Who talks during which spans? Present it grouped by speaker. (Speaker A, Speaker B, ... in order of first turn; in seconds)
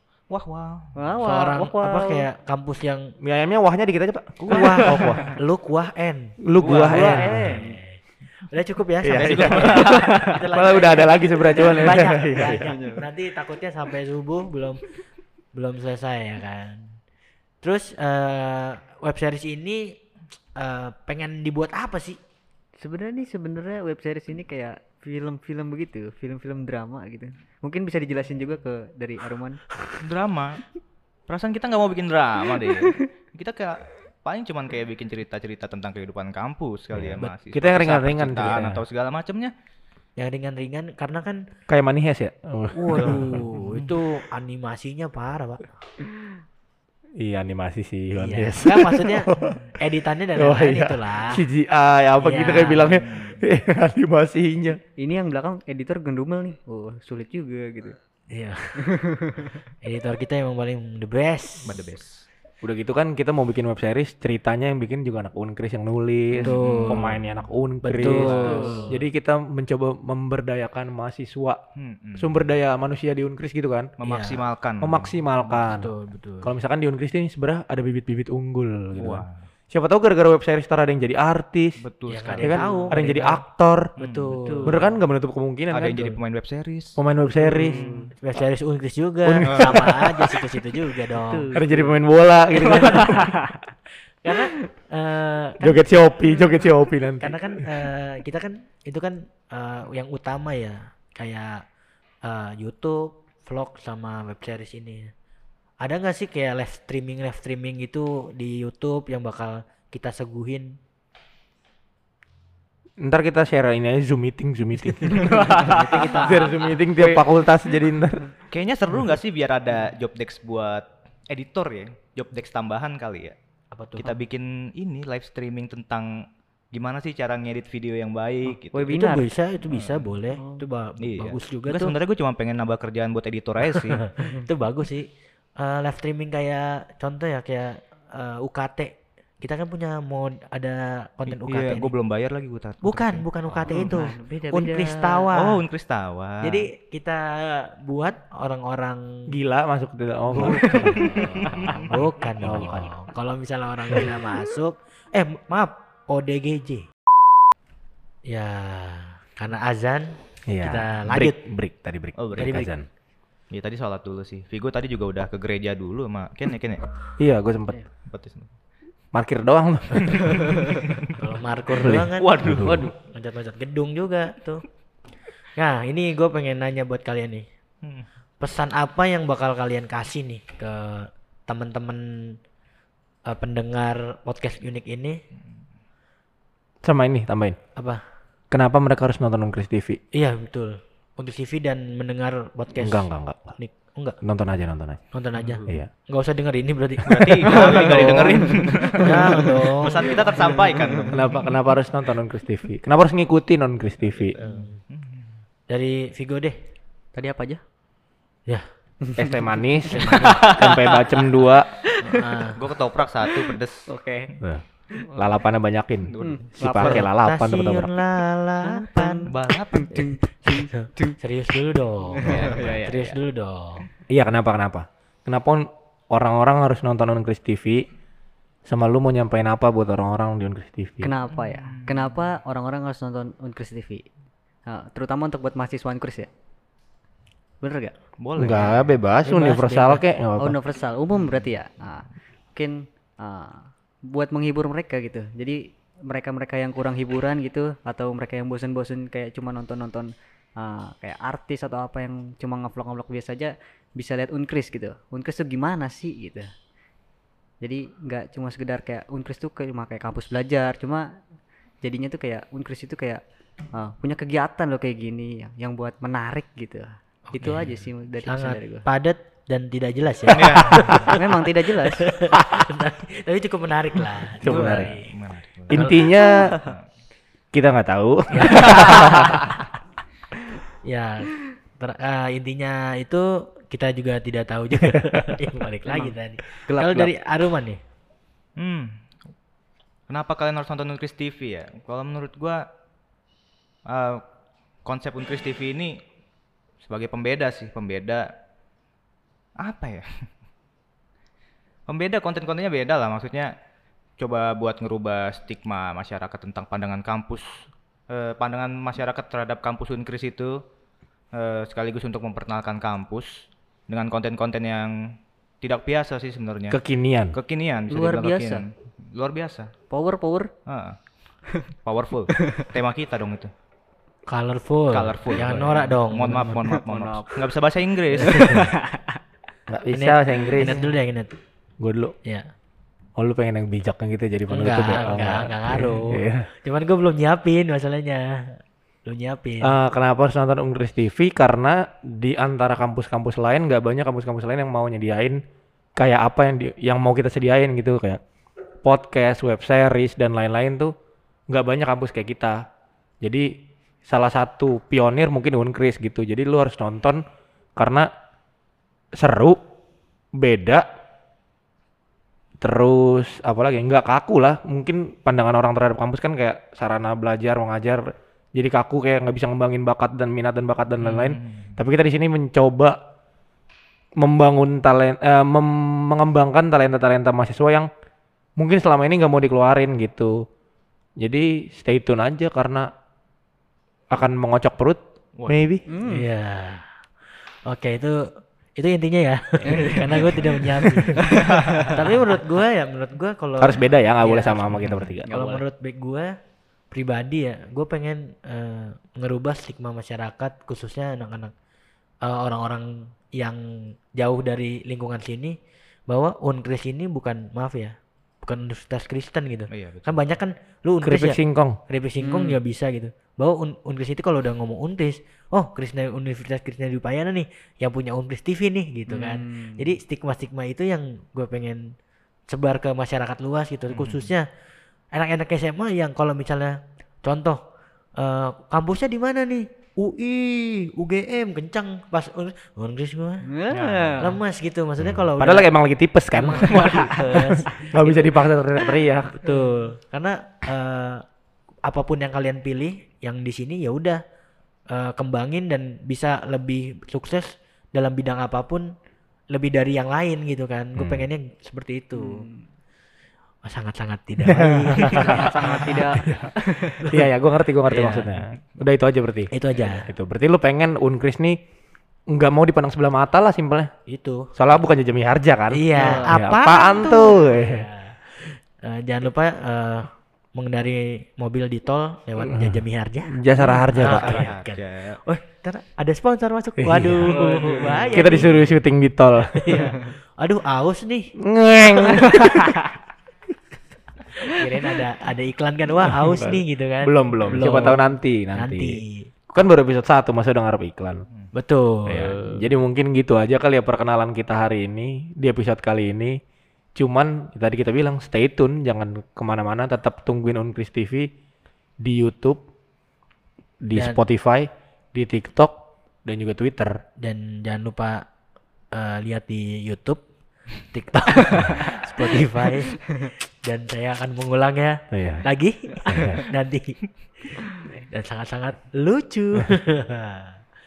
Speaker A: 0.3-0.9, 4.4-5.4, 6.6-7.2, 9.2-10.2, 30.0-30.6, 31.3-39.5, 53.0-53.4, 61.7-62.3, 66.5-67.4, 68.2-68.6, 71.8-72.5, 74.0-75.2, 79.0-79.5, 81.8-82.7, 84.0-84.4, 85.7-87.0, 89.5-89.8, 115.2-117.3, 118.5-123.4, 124.0-126.1, 126.7-129.0, 129.7-130.1, 131.0-134.1, 141.3-144.0, 145.3-146.7, 150.9-151.8, 162.2-162.6, 163.5-166.8, 168.1-168.5, 170.6-171.1, 172.2-172.9, 195.4-195.8, 197.1-201.3, 204.2-205.4, 210.2-211.0, 212.6-213.9, 216.1-216.6, 219.3-220.1, 231.3-232.4, 238.2-239.0, 270.3-271.0, 274.4-276.0, 276.6-276.9, 288.6-288.9, 290.1-292.6, 293.9-294.2, 294.9-295.9, 296.9-298.2, 299.6-300.1, 301.9-303.5, 304.2-310.6, 311.3-314.9, 315.6-316.8, 317.3-319.8, 320.7-320.9, 321.9-323.5, 324.9-328.7, 371.0-371.8, 385.4-385.8, 409.7-410.2, 423.9-424.3, 474.0-475.2
Speaker B: 1.0-2.3, 7.0-7.8, 12.7-13.0, 22.8-29.6, 32.6-33.0, 55.0-58.0, 58.8-59.6, 68.4-68.8, 82.7-83.3, 84.4-85.0, 87.4-88.1, 91.1-92.0, 92.7-93.7, 128.7-129.3, 130.3-130.6, 134.2-134.4, 143.7-145.3, 151.4-151.8, 197.6-197.9, 207.2-207.6, 209.0-210.2, 211.9-212.5, 213.3-214.3, 216.2-217.1, 218.6-221.2, 222.1-223.2, 231.0-234.1, 234.7-236.3, 237.6-237.9, 239.2-250.1, 250.6-256.5, 257.6-261.1, 261.8-263.2, 263.7-268.9, 271.1-272.1, 276.2-276.7, 285.9-286.1, 317.9-318.6, 319.9-320.5, 322.3-322.7, 326.6-327.4, 328.2-329.2, 385.9-386.3, 389.6-392.1, 395.3-395.6, 412.2-412.6, 419.1-419.9, 433.4-434.4, 452.1-452.6, 455.1-457.1, 466.0-466.4, 477.3-478.3, 482.3-482.9
Speaker C: 1.2-3.1, 4.5-6.4, 6.9-14.8, 15.5-17.0, 17.6-19.9, 20.6-22.2, 40.2-41.4, 42.8-45.7, 48.2-51.4, 52.2-53.0, 58.3-58.8, 59.8-61.8, 66.4-67.2, 67.8-69.0, 74.0-74.4, 75.5-76.5, 82.1-83.4, 84.0-84.8, 88.2-91.5, 92.6-93.1, 94.2-95.8, 97.2-101.6, 102.2-105.1, 105.8-110.8, 115.4-116.8, 123.7-124.2, 128.9-132.0, 133.7-135.1, 135.6-141.9, 142.8-145.6, 146.4-149.1, 150.3-156.9, 158.3-161.4, 162.4-162.7, 171.1-174.7, 175.6-177.4, 178.4-182.3, 183.3-185.2, 190.1-193.1, 193.6-194.2, 195.1-200.9, 204.4-204.8, 205.7-206.6, 209.9-210.5, 212.0-212.6, 216.8-219.3, 220.5-223.9, 267.3-275.1, 275.7-276.1, 278.3-279.3, 280.8-287.8, 324.3-326.6, 328.2-328.8, 329.9-331.3, 334.5-339.8, 386.1-386.9, 387.7-388.2, 388.8-396.3, 396.9-401.5, 402.2-403.6, 404.1-405.6, 406.1-421.8, 422.5-424.5, 425.1-427.6, 428.2-433.5, 434.2-435.7, 436.3-438.4, 439.4-441.2, 441.9-444.2, 444.9-448.9, 449.5-452.4, 453.6-456.2, 457.9-458.3, 459.5-460.1, 464.1-464.5, 465.7-473.4, 473.9-478.7, 479.5-481.3, 484.4-489.3, 491.5-492.7, 503.9-504.2, 507.2-508.2, 508.9-510.2, 510.9-520.5
Speaker D: 3.2-5.2, 6.4-7.5, 9.0-12.7, 36.9-38.9, 41.7-43.9, 47.2-49.6, 50.4-54.8, 62.6-71.6, 72.2-73.9, 74.8-81.8, 82.4-83.9, 84.7-86.2, 87.0-87.8, 89.2-90.4, 91.5-93.2, 95.6-97.6, 113.0-118.3, 149.3-151.2, 152.4-152.9, 160.5-162.8, 167.2-167.8, 169.1-170.5, 171.8-172.9, 186.8-187.6, 188.5-190.0, 192.8-193.6, 194.2-195.0, 201.1-204.4, 209.2-211.7, 214.4-217.9, 224.1-227.8, 228.7-231.1, 238.4-240.6, 274.4-274.9, 275.7-276.6, 277.5-279.4, 286.7-287.1, 316.7-317.4, 329.7-330.9, 331.8-332.1, 333.2-336.5, 339.6-345.4, 346.0-348.2, 348.8-350.9, 351.5-352.6, 353.2-353.5, 354.1-357.2, 357.8-358.1, 359.2-359.6, 360.4-360.9, 362.6-368.0, 368.6-373.0, 374.2-377.9, 378.6-380.4, 381.2-382.9, 384.1-385.8, 393.6-395.3, 411.0-411.8, 433.7-434.3, 435.0-439.4, 451.0-451.3, 454.4-455.4, 457.1-459.5, 460.1-461.6, 462.3-463.9, 464.6-467.9, 472.4-472.8, 473.3-474.5, 476.8-477.3, 478.1-479.8, 481.4-482.7, 486.0-489.0, 489.5-491.2, 492.1-496.4, 497.0-501.3, 502.0-502.6, 503.8-507.0, 515.1-515.4, 516.1-516.4